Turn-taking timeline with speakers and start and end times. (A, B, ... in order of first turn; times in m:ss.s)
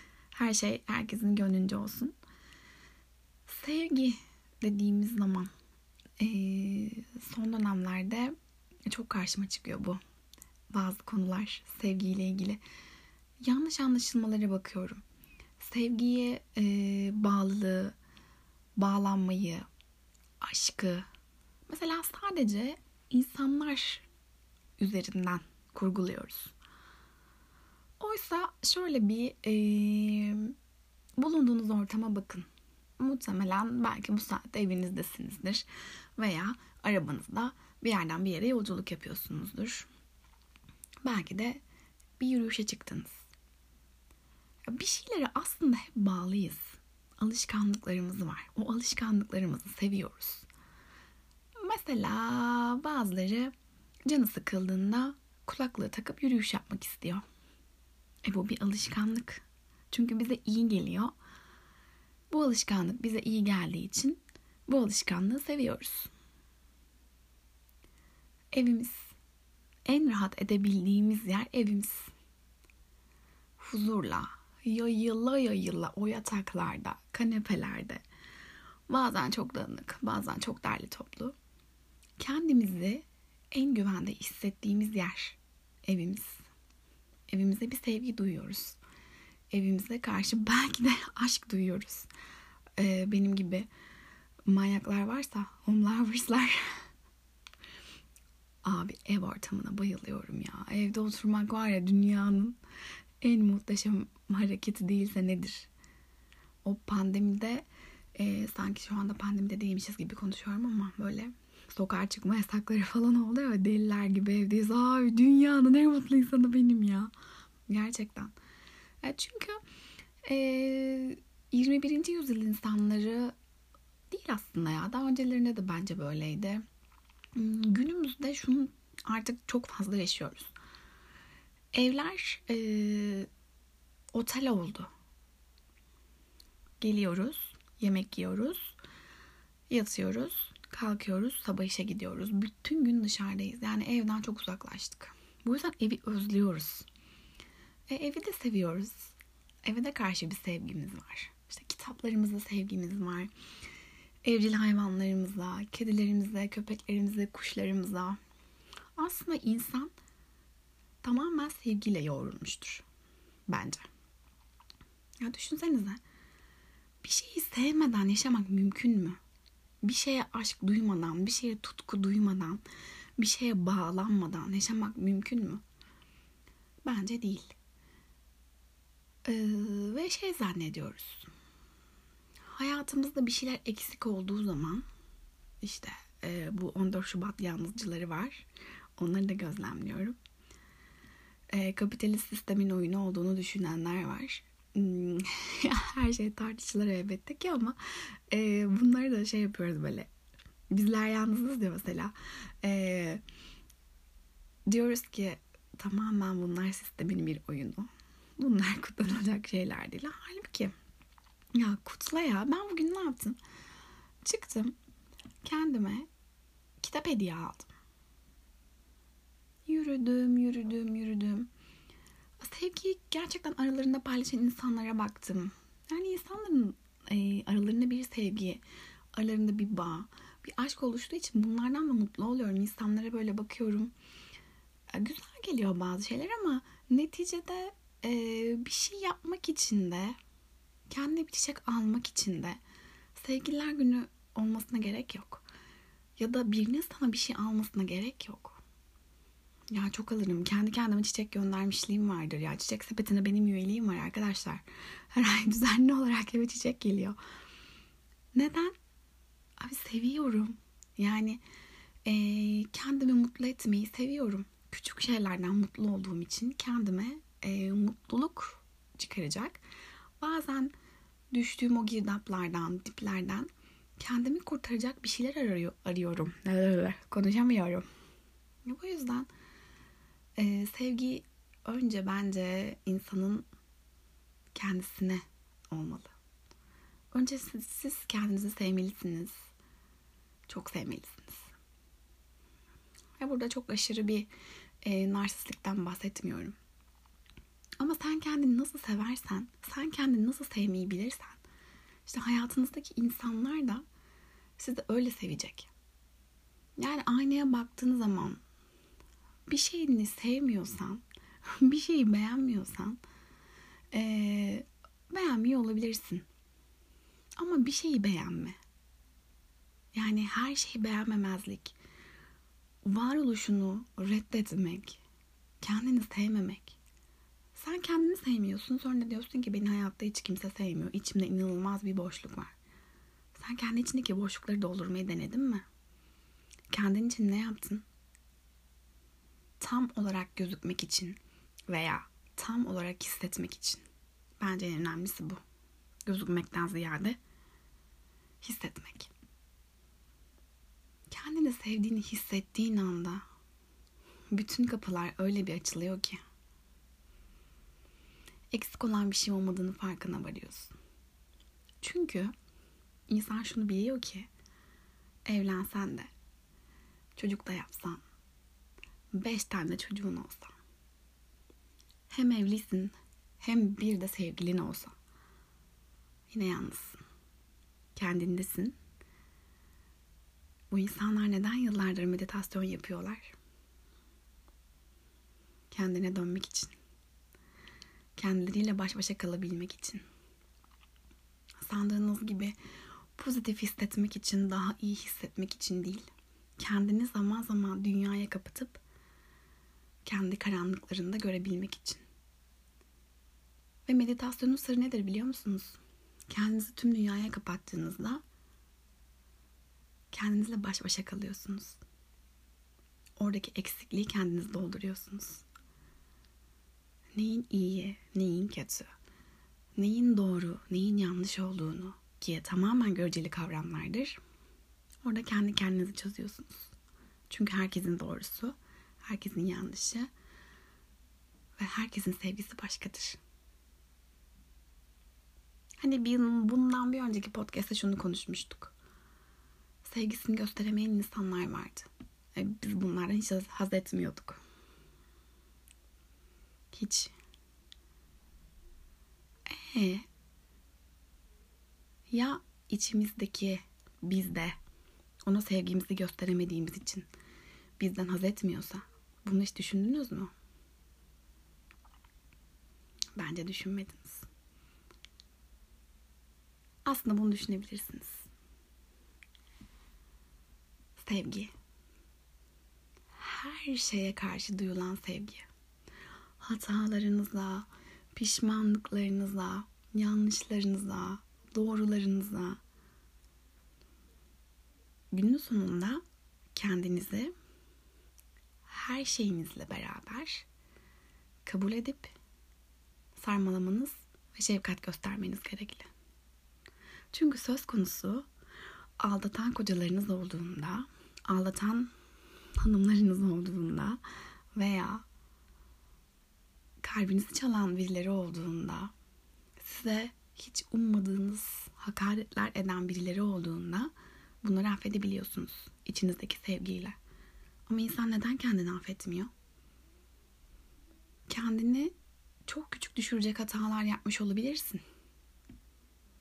0:00.4-0:02.1 A
0:03.5-0:05.5 A
0:06.2-0:08.3 A
0:08.9-0:10.0 A
0:10.7-0:12.6 A
0:13.4-0:15.0 A
0:15.6-0:17.9 A
0:18.8-0:19.6 A
0:20.4-0:21.1 A
0:21.7-0:24.0 A
0:24.8-0:26.5 A
0:28.0-0:30.5 A
0:31.2-0:32.5 A
0:33.0-0:35.6 A
0:36.2-0:39.9 A
0:41.0-0:41.6 A
0:42.2-0:43.2 A
0:44.7-0:50.5 A
0:51.6-0:53.5 A
0:54.1-0:57.2 A
0:58.3-1:01.1 A
1:02.3-1:06.1 A
1:08.5-1:09.1 A
1:09.9-1:12.1 A
1:13.6-1:18.0 A
1:18.9-1:21.3 A
1:22.2-1:26.4 A
1:27.3-1:28.8 A
1:29.5-1:32.1 A
1:32.8-1:33.7 A
1:34.5-1:36.6 A
1:38.6-1:42.6 A
1:43.2-1:45.7 A
1:46.6-1:47.6 A
1:48.2-1:57.1 A
1:57.7-1:58.3 A
1:59.0-1:59.6 A
2:00.3-2:03.3 A
2:04.1-2:06.6 A
2:07.4-2:10.5 A
2:11.8-2:13.3 A
2:14.1-2:14.9 A
2:16.8-2:18.7 A
2:19.7-2:26.8 A
2:27.9-2:29.1 A
2:29.6-2:33.3 A
2:34.2-2:38.2 A
2:39.0-2:39.9 A
2:41.0-2:42.8 A
2:43.5-2:43.8 A
2:45.2-2:46.0 A
2:47.0-2:49.2 A
2:49.8-2:52.6 A
2:53.2-2:55.6 A
2:56.8-2:57.5 A
2:59.3-3:01.3 A
3:02.5-3:04.8 A
3:05.6-3:08.4 A
3:09.0-3:10.1 A
3:11.5-3:17.8 A
3:18.3-3:20.1 A
3:20.7-3:22.1 A
3:22.6-3:23.2 A
3:24.7-3:27.9 A
3:28.4-3:30.7 A
3:31.6-3:33.4 A
3:34.2-3:34.7 A
3:35.4-3:36.1 A
3:36.8-3:37.7 A
3:39.7-3:41.5 A
3:42.4-3:48.6 A
3:49.2-3:53.9 A
3:54.9-4:00.2 A
4:00.9-4:02.6 A
4:03.2-4:05.4 A
4:06.2-4:08.6 A
4:09.7-4:14.6 A
4:15.1-4:17.2 A
4:18.4-4:18.7 A
4:19.6-4:21.4 A
4:22.1-4:29.6 A
4:30.2-4:30.7 A
4:31.3-4:33.5 A
4:34.0-4:37.8 A
4:38.7-4:39.3 A
4:40.4-4:43.4 A
4:44.6-4:46.1 A
4:47.1-4:49.4 A
4:50.5-4:51.4 A
4:53.2-4:54.3 A
4:54.8-4:56.5 A
4:57.8-5:01.4 A
5:02.1-5:03.8 A
5:04.6-5:05.7 A
5:06.8-5:08.4 A
5:09.5-5:11.0 A
5:11.6-5:13.0 A
5:13.9-5:16.2 A
5:17.4-5:18.5 A
5:20.0-5:21.7 A
5:22.8-5:25.0 A
5:25.6-5:26.8 A
5:27.6-5:32.5 A
5:33.4-5:35.6 A
5:36.7-5:37.8 A
5:39.6-5:41.2 A
5:41.7-5:43.8 A
5:44.4-5:45.4 A
5:46.1-5:47.2 A
5:48.4-5:49.1 A
5:51.1-5:53.2 A
5:54.3-5:56.2 A
5:58.5-6:00.7 A
6:01.8-6:02.3 A
6:03.1-6:04.3 A
6:05.3-6:06.1 A
6:07.2-6:08.0 A
6:09.1-6:10.5 A
6:12.1-6:14.9 A
6:16.3-6:17.0 A
6:18.0-6:18.7 A
6:20.7-6:23.3 A
6:25.7-6:26.7 A
6:28.2-6:30.0 A
6:31.6-6:32.5 A
6:33.2-6:36.1 A
6:36.6-6:38.8 A
6:40.1-6:42.0 A
6:43.9-6:45.8 A
6:46.3-6:48.2 A
6:50.1-6:51.8 A
6:53.2-6:55.4 A
6:57.2-6:58.9 A
6:59.8-7:04.2 A
7:05.0-7:06.7 A
7:07.3-7:08.5 A
7:09.0-7:10.1 A
7:11.6-7:13.2 A
7:15.8-7:18.7 A
7:19.9-7:24.4 A
7:26.7-7:27.1 A
7:29.7-7:30.0 A
7:32.1-7:34.5 A
7:35.3-7:37.1 A
7:37.8-7:40.3 A
7:43.2-7:44.2 A
7:46.9-7:48.2 A
7:51.0-7:51.5 A
7:53.2-7:55.4 A
7:56.4-7:57.6 A
7:58.2-8:02.6 A
8:05.1-8:06.0 A
8:06.6-8:07.3 A
8:08.7-8:10.4 A
8:11.5-8:12.1 A
8:13.2-8:15.8 A
8:17.1-8:18.2 A
8:19.0-8:21.9 A
8:22.6-8:24.0 A
8:24.6-8:25.0 A
8:26.8-8:28.9 A
8:29.6-8:33.9 A
8:34.4-8:37.0 A
8:37.7-8:39.3 A
8:41.3-8:41.9 A
8:42.5-8:44.8 A